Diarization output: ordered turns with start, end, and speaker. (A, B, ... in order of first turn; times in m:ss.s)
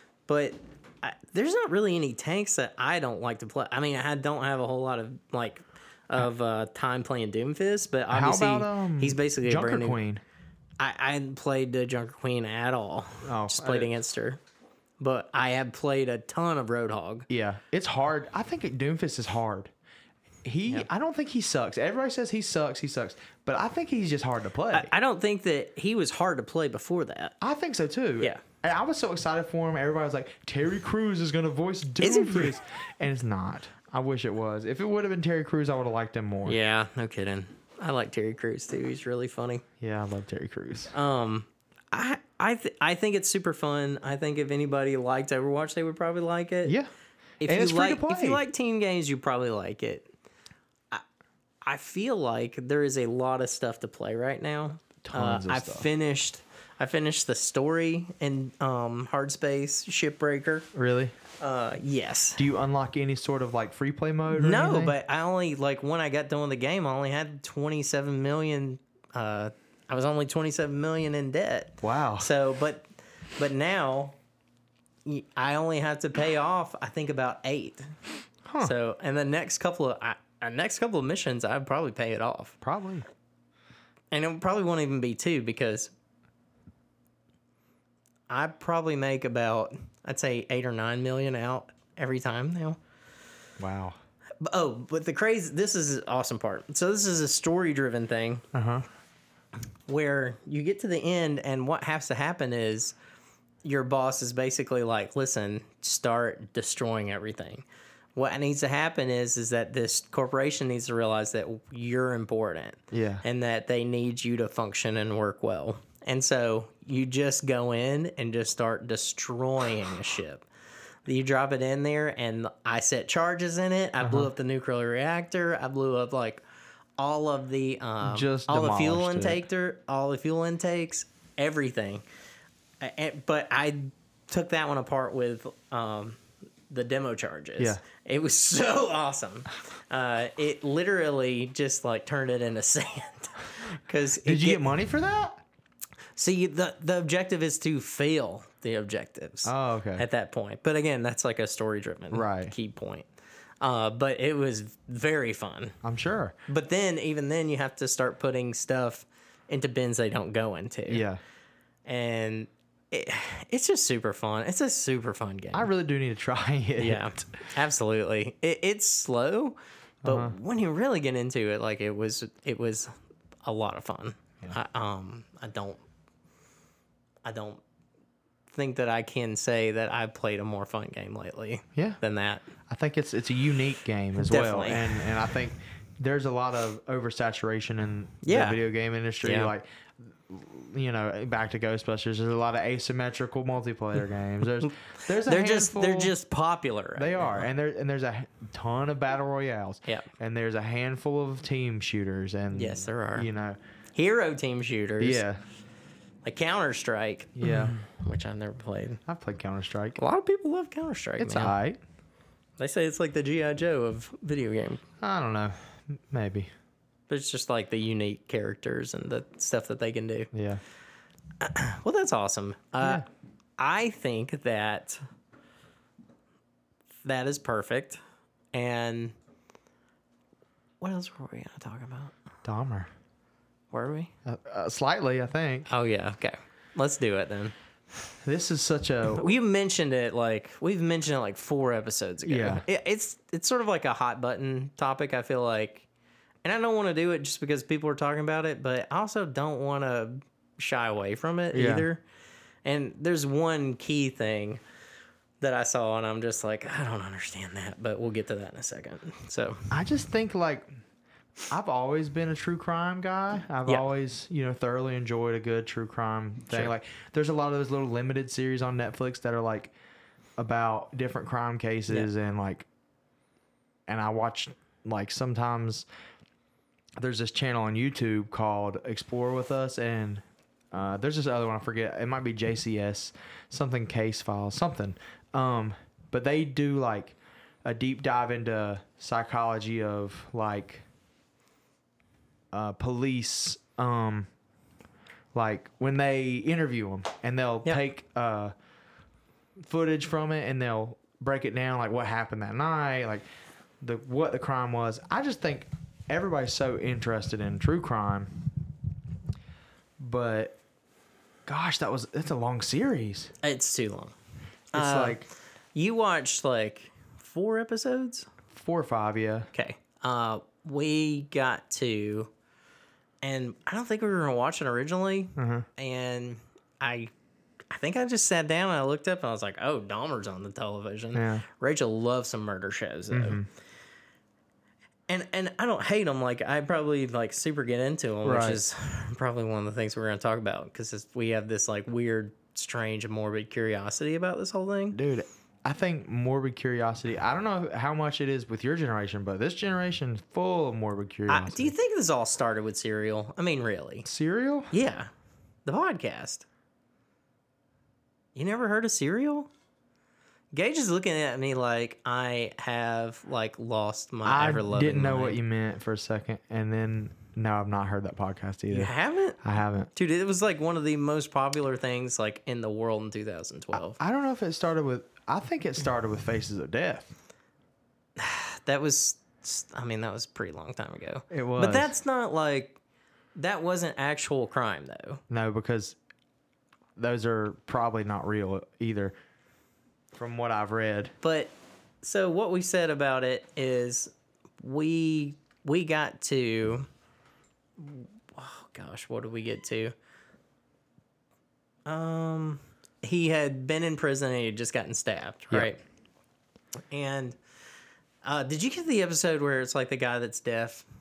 0:00.3-0:10.0 A
0:08.1-0:10.2 B
0:10.8-0:14.4 A
0:13.2-0:13.9 B
0:15.0-0:17.3 A
0:17.3-0:19.7 B
0:20.4-0:24.9 B
0:24.7-0:27.3 A
0:27.4-0:36.6 B
0:32.0-0:32.5 A
0:36.4-0:39.6 A
0:39.8-0:40.9 B
0:40.9-0:46.8 A
0:47.4-0:50.1 A
0:47.4-0:48.4 B
0:51.6-1:00.7 A
0:55.0-0:55.9 B
1:00.7-1:01.1 B
1:01.4-1:02.4 A
1:02.4-1:04.9 B
1:04.3-1:14.2 A
1:11.8-1:12.3 B
1:15.0-1:17.9 A
1:18.5-1:18.7 B
1:18.6-1:22.6 A
1:22.6-1:23.0 B
1:24.1-1:25.9 A
1:28.3-1:32.8 A
1:33.6-1:34.0 B
1:34.4-1:38.4 A
1:38.5-1:38.8 B
1:39.9-1:42.9 A
1:43.6-2:00.4 A
1:52.9-1:53.2 B
2:01.0-2:06.4 A
2:04.0-2:04.3 B
2:07.0-2:12.0 A
2:08.0-2:09.4 B
2:12.8-2:24.7 A
2:24.2-2:25.4 B
2:26.2-2:33.0 A
2:29.4-2:30.0 B
2:32.1-2:32.5 B
2:33.6-2:35.8 A
2:35.8-2:36.3 B
2:36.5-2:41.0 A
2:40.9-2:41.2 B
2:41.8-2:45.7 A
2:45.5-2:47.4 B
2:46.8-2:52.9 A
2:50.0-2:50.3 B
2:53.4-2:55.8 A
2:57.2-2:57.6 A
2:58.5-3:02.5 A
3:02.7-3:16.1 B
3:04.2-3:05.1 A
3:08.2-3:08.6 A
3:09.2-3:09.5 A
3:14.6-3:17.5 A
3:17.0-3:23.6 B
3:22.5-3:23.3 A
3:23.9-3:25.2 A
3:25.0-3:25.4 B
3:26.2-3:29.0 A
3:27.4-3:27.7 B
3:29.1-3:30.0 B
3:30.0-3:31.6 A
3:31.2-3:31.8 B
3:32.6-3:34.8 A
3:35.0-3:36.5 B
3:37.1-3:40.3 A
3:40.3-3:40.6 B
3:41.4-3:43.0 A
3:43.6-3:45.0 A
3:47.0-3:48.0 A
3:48.5-3:49.1 A
3:50.8-3:52.1 A
3:52.4-3:52.9 B
3:53.7-3:54.1 A
3:54.2-3:55.7 B
3:55.7-3:57.5 A
3:58.2-3:59.3 B
3:59.1-4:05.8 A
4:02.2-4:02.6 B
4:06.4-4:12.0 A
4:11.5-4:11.9 B
4:12.6-4:14.6 A
4:15.4-4:19.7 A
4:19.7-4:20.7 B
4:21.5-4:29.7 B
4:30.4-4:32.6 B
4:33.9-4:35.8 B
4:37.0-4:50.8 B
4:52.5-4:54.3 B
4:55.3-4:58.5 B
4:59.6-5:03.2 B
5:03.8-5:08.3 B
5:10.0-5:10.6 B
5:11.5-5:13.3 B
5:13.4-5:14.1 A
5:14.7-5:18.3 A
5:14.7-5:15.2 B
5:18.5-5:19.5 B
5:19.5-5:22.3 A
5:23.2-5:27.1 A
5:25.4-5:25.7 B
5:27.7-5:33.4 A
5:31.1-5:31.4 B
5:33.1-5:33.4 B
5:35.1-5:45.0 A
5:38.2-5:38.6 B
5:44.9-5:51.7 B
5:51.3-5:54.0 A
5:54.0-5:54.7 B
5:54.7-5:55.1 A
5:55.6-5:56.4 A
5:58.3-5:59.5 A
6:00.5-6:05.4 A
6:04.2-6:09.9 B
6:08.7-6:09.4 A
6:09.9-6:14.0 A
6:13.7-6:17.1 B
6:18.2-6:22.8 A
6:21.3-6:21.9 B
6:23.3-6:25.2 A
6:25.3-6:26.0 B
6:27.0-6:29.1 B
6:30.1-6:31.1 B
6:31.2-6:31.5 A
6:32.0-6:36.9 A
6:37.8-6:39.9 A
6:41.9-6:45.8 A
6:46.9-6:47.4 A
6:48.2-6:50.8 A